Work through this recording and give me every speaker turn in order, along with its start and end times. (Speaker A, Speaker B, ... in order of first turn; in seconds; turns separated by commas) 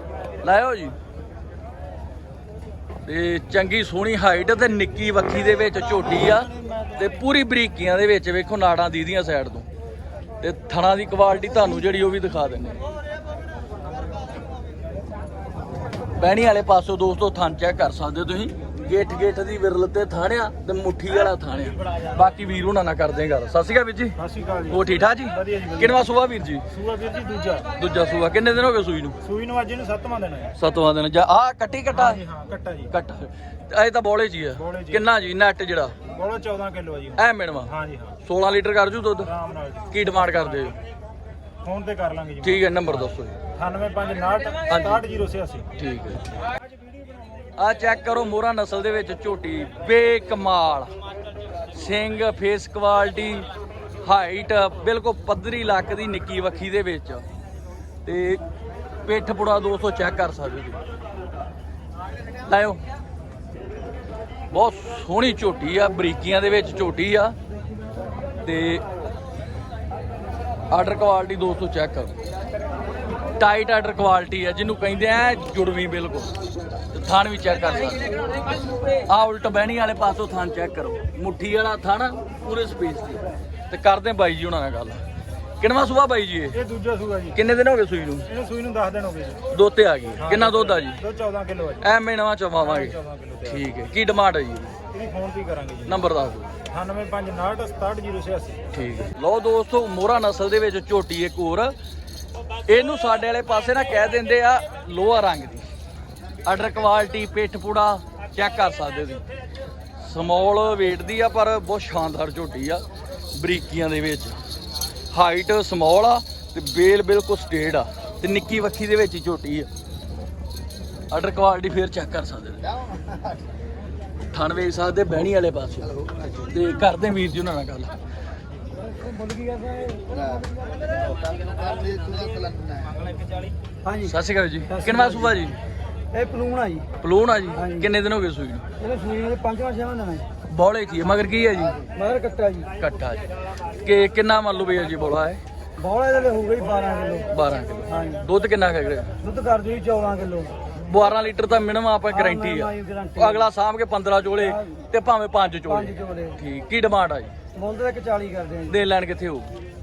Speaker A: 0.4-0.9, Speaker A: 3.1-9.7, Speaker A: 10.4-12.8, Speaker A: 16.2-24.2, Speaker B: 24.2-26.0, Speaker A: 24.7-26.7, Speaker B: 26.7-27.7, Speaker A: 27.8-29.2, Speaker B: 29.2-30.6, Speaker A: 30.6-32.2, Speaker B: 31.9-32.9, Speaker A: 32.9-36.0, Speaker B: 34.6-35.1, Speaker B: 36.1-38.2, Speaker A: 37.2-37.7, Speaker A: 38.2-39.3, Speaker B: 39.2-40.7, Speaker A: 39.9-40.8, Speaker B: 41.6-43.0, Speaker A: 42.4-43.4, Speaker B: 43.6-45.7, Speaker A: 44.7-45.0, Speaker A: 45.8-46.3, Speaker A: 47.6-50.9, Speaker A: 51.7-53.5, Speaker A: 54.0-57.2, Speaker A: 58.0-58.4, Speaker A: 59.1-60.8, Speaker A: 62.5-62.8, Speaker A: 64.5-67.4, Speaker A: 68.4-68.8, Speaker A: 70.7-72.2, Speaker A: 73.4-76.3, Speaker A: 76.9-78.2, Speaker A: 78.9-85.0, Speaker A: 85.6-86.6, Speaker B: 86.5-87.4, Speaker A: 87.3-88.3, Speaker B: 88.3-89.4, Speaker A: 89.5-91.0, Speaker B: 90.2-91.9, Speaker A: 91.8-94.8, Speaker B: 92.6-93.7, Speaker B: 94.9-96.0, Speaker A: 95.9-96.5, Speaker B: 96.7-98.6, Speaker A: 98.7-101.7, Speaker A: 102.7-105.7, Speaker A: 106.5-109.2, Speaker A: 110.0-112.8, Speaker A: 113.3-114.4, Speaker A: 115.1-119.7, Speaker A: 121.1-122.7, Speaker A: 124.3-128.0, Speaker C: 128.8-130.4, Speaker B: 131.7-133.3, Speaker C: 133.8-134.2, Speaker A: 134.1-135.6, Speaker C: 134.7-135.4, Speaker C: 136.1-136.9, Speaker A: 137.0-138.7, Speaker C: 137.6-137.9, Speaker C: 138.8-140.3, Speaker A: 140.4-141.8, Speaker C: 141.8-142.7, Speaker A: 142.8-143.3, Speaker A: 143.8-145.4, Speaker C: 145.8-147.3, Speaker A: 147.3-149.1, Speaker C: 147.9-148.3, Speaker C: 149.2-150.6, Speaker A: 150.8-157.3, Speaker C: 152.1-153.5, Speaker C: 154.4-154.8, Speaker C: 155.7-156.4, Speaker C: 157.6-158.8, Speaker A: 158.7-159.5